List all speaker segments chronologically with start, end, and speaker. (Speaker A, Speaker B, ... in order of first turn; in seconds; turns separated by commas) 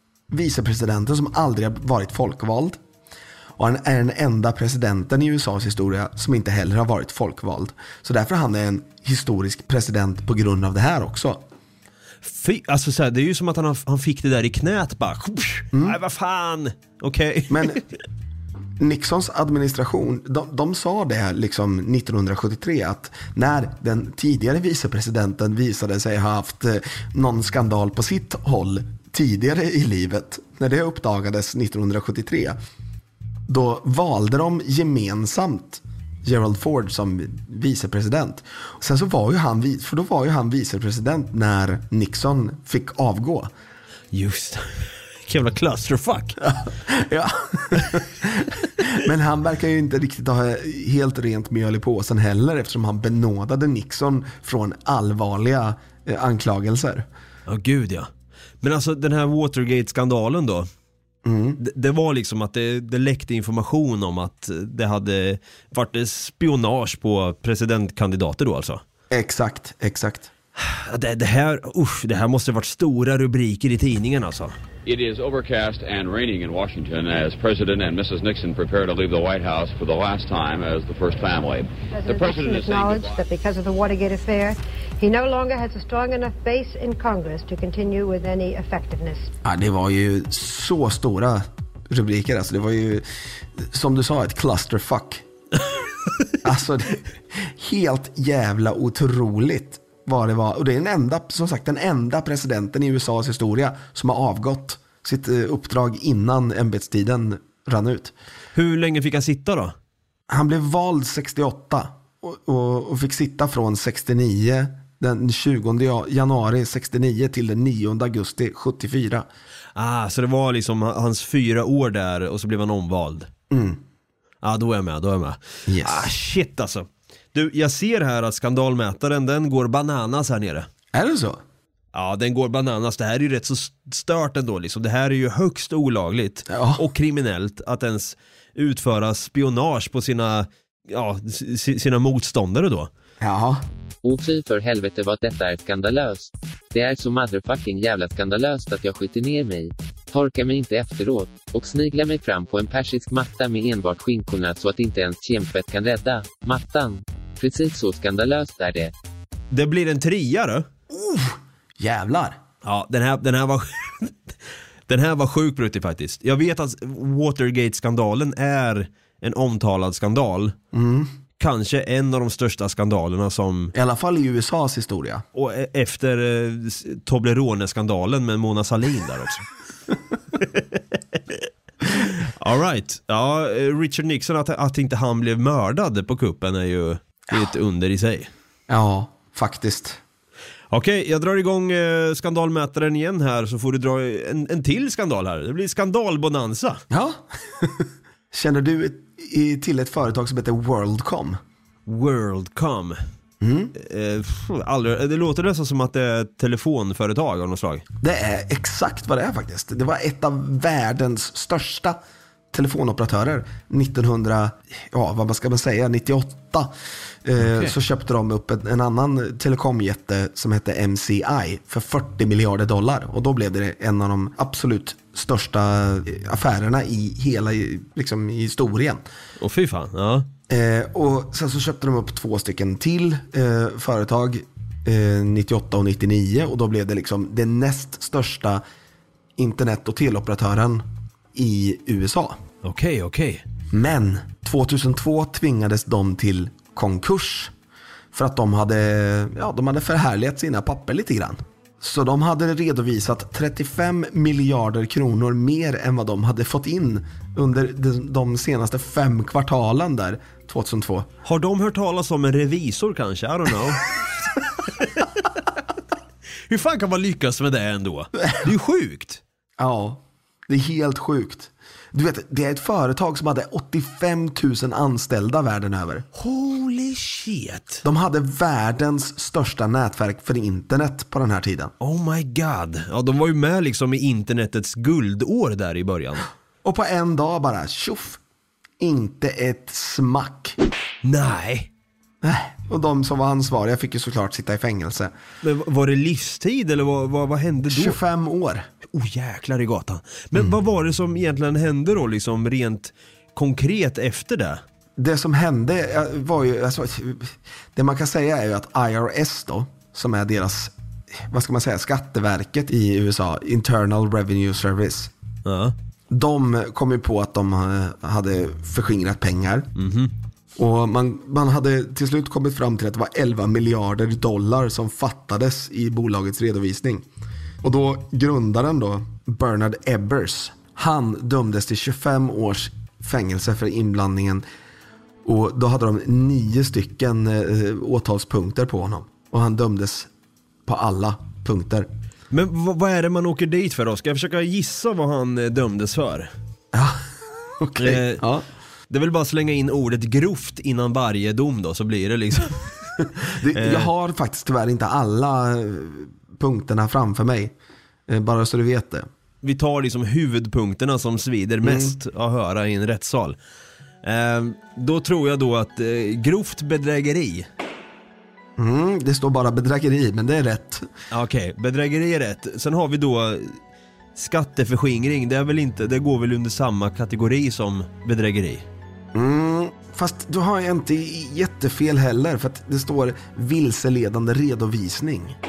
Speaker A: 0.3-2.8, Speaker A: 3.6-11.4, Speaker B: 12.2-17.9, Speaker A: 15.7-16.0, Speaker A: 17.5-17.8, Speaker A: 18.8-32.5, Speaker A: 33.5-43.5, Speaker B: 44.1-46.4, Speaker A: 46.4-57.1, Speaker B: 57.5-58.1, Speaker B: 58.6-60.7, Speaker A: 61.2-61.6, Speaker B: 61.6-68.8, Speaker A: 69.1-70.3, Speaker B: 70.6-74.5, Speaker C: 74.8-83.2, Speaker D: 81.9-89.3, Speaker A: 89.4-95.2, Speaker A: 96.4-108.1, Speaker B: 108.5-109.7, Speaker A: 110.3-119.3, Speaker B: 119.8-123.3, Speaker A: 123.5-123.8, Speaker B: 124.4-130.7, Speaker A: 125.7-126.1, Speaker A: 130.9-131.4, Speaker B: 131.9-142.9, Speaker A: 136.5-136.8, Speaker A: 143.2-143.7, Speaker E: 144.0-158.9, Speaker B: 159.5-160.7, Speaker A: 160.9-162.4, Speaker B: 162.6-164.1, Speaker B: 164.9-170.6, Speaker A: 170.7-171.1, Speaker B: 171.4-173.7, Speaker A: 173.7-175.2, Speaker B: 175.3-179.4, Speaker B: 180.4-188.3, Speaker A: 188.7-190.0, Speaker B: 190.7-196.8, Speaker A: 196.9-201.4, Speaker B: 201.9-203.0, Speaker A: 203.4-203.7, Speaker B: 203.7-207.8, Speaker A: 208.0-212.0, Speaker A: 212.5-216.7, Speaker A: 217.2-229.0, Speaker B: 217.4-217.7, Speaker B: 229.4-230.3, Speaker A: 230.5-238.6, Speaker A: 239.4-242.4, Speaker B: 242.6-243.4, Speaker A: 243.7-247.5, Speaker A: 248.1-261.1, Speaker B: 261.2-263.9, Speaker B: 264.8-265.2, Speaker B: 266.5-269.2, Speaker A: 269.6-276.1, Speaker B: 276.1-277.8, Speaker A: 277.8-281.7, Speaker B: 281.8-286.3, Speaker A: 286.6-288.2, Speaker A: 288.8-290.6, Speaker B: 291.0-291.7, Speaker A: 292.2-295.1, Speaker B: 295.4-298.0, Speaker A: 297.7-298.7, Speaker B: 298.9-304.6, Speaker A: 305.0-315.1, Speaker B: 315.4-315.7, Speaker A: 316.1-319.7, Speaker B: 319.8-320.1, Speaker A: 320.6-327.1, Speaker A: 327.6-334.4, Speaker A: 335.2-340.1, Speaker A: 340.6-341.9, Speaker B: 342.3-346.3, Speaker A: 346.7-348.4, Speaker B: 347.8-348.2, Speaker B: 348.9-352.7, Speaker A: 353.2-357.5, Speaker B: 353.5-353.9, Speaker A: 358.1-359.1, Speaker B: 359.4-363.4, Speaker A: 361.6-361.9, Speaker B: 364.0-367.5, Speaker A: 368.6-370.9, Speaker B: 371.1-373.6, Speaker B: 374.1-378.6, Speaker A: 379.1-385.4